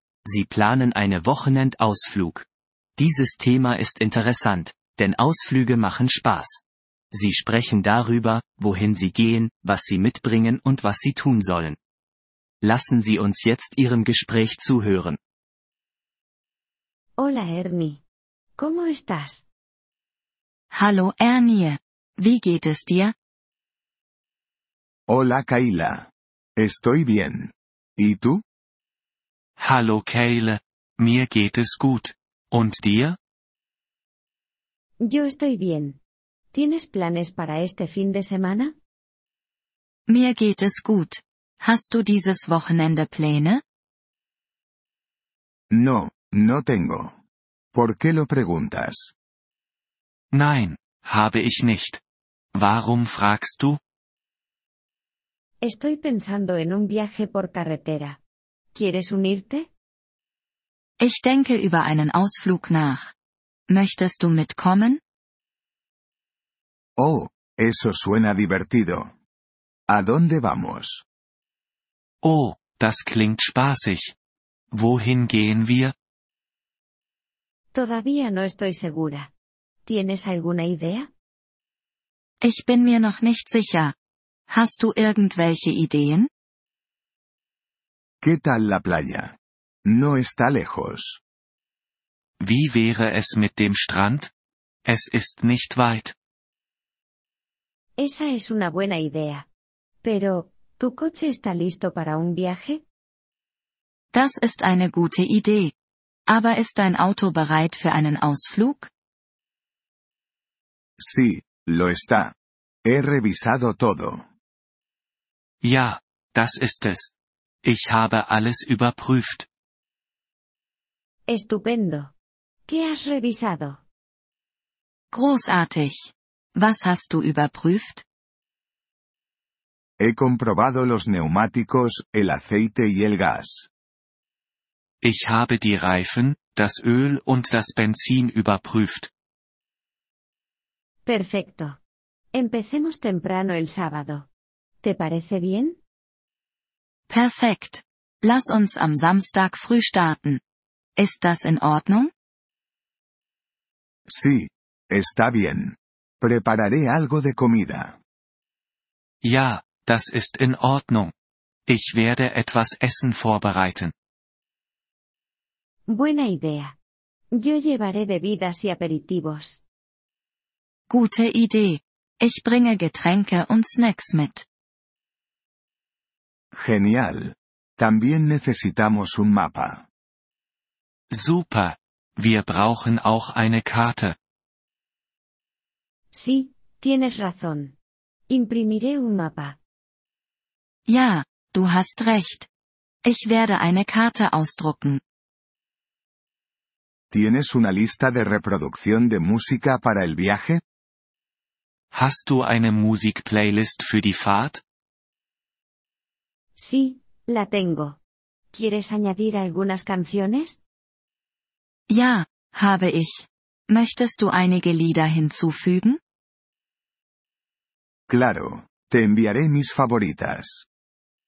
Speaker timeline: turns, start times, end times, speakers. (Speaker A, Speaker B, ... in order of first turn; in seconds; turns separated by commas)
Speaker A: 0.2-11.8, Speaker A: 12.6-15.2, Speaker B: 17.2-18.0, Speaker B: 18.6-19.4, Speaker C: 20.7-23.1, Speaker D: 25.1-28.4, Speaker E: 29.6-33.2, Speaker B: 35.0-36.0, Speaker B: 36.5-38.7, Speaker C: 40.1-43.6, Speaker D: 45.7-47.2, Speaker D: 47.7-49.1, Speaker E: 50.3-52.0, Speaker E: 52.5-53.8, Speaker B: 55.6-58.2, Speaker B: 58.7-59.7, Speaker C: 61.0-63.1, Speaker C: 63.7-65.0, Speaker D: 67.0-69.1, Speaker D: 69.9-71.0, Speaker E: 72.2-74.1, Speaker E: 74.7-75.9, Speaker B: 77.7-79.3, Speaker B: 79.8-81.1, Speaker C: 82.4-83.9, Speaker C: 84.5-86.3, Speaker D: 88.2-91.2, Speaker E: 92.4-94.3, Speaker E: 94.8-96.1, Speaker B: 98.0-99.5, Speaker B: 100.0-102.8, Speaker C: 104.1-105.7, Speaker C: 106.3-108.9, Speaker D: 111.0-112.3, Speaker D: 112.8-114.2, Speaker E: 115.6-117.1, Speaker E: 117.6-119.5, Speaker B: 121.3-122.1, Speaker B: 122.7-123.8, Speaker C: 125.1-128.0, Speaker D: 130.0-133.7, Speaker E: 135.0-139.1, Speaker B: 141.1-141.8, Speaker B: 142.3-144.3, Speaker B: 144.8-145.8, Speaker C: 147.1-150.4, Speaker C: 151.0-152.1, Speaker D: 154.1-158.0, Speaker E: 159.2-161.1, Speaker E: 161.7-163.9, Speaker B: 165.9-166.7, Speaker B: 167.3-169.6, Speaker C: 170.9-174.4, Speaker D: 176.5-179.8, Speaker E: 181.1-184.2, Speaker B: 186.1-187.8, Speaker B: 188.3-189.6, Speaker C: 190.8-192.5, Speaker C: 193.0-195.0, Speaker D: 197.1-200.6, Speaker E: 201.9-204.6, Speaker B: 206.6-208.0, Speaker B: 208.5-210.6, Speaker C: 211.9-216.0, Speaker D: 218.1-220.7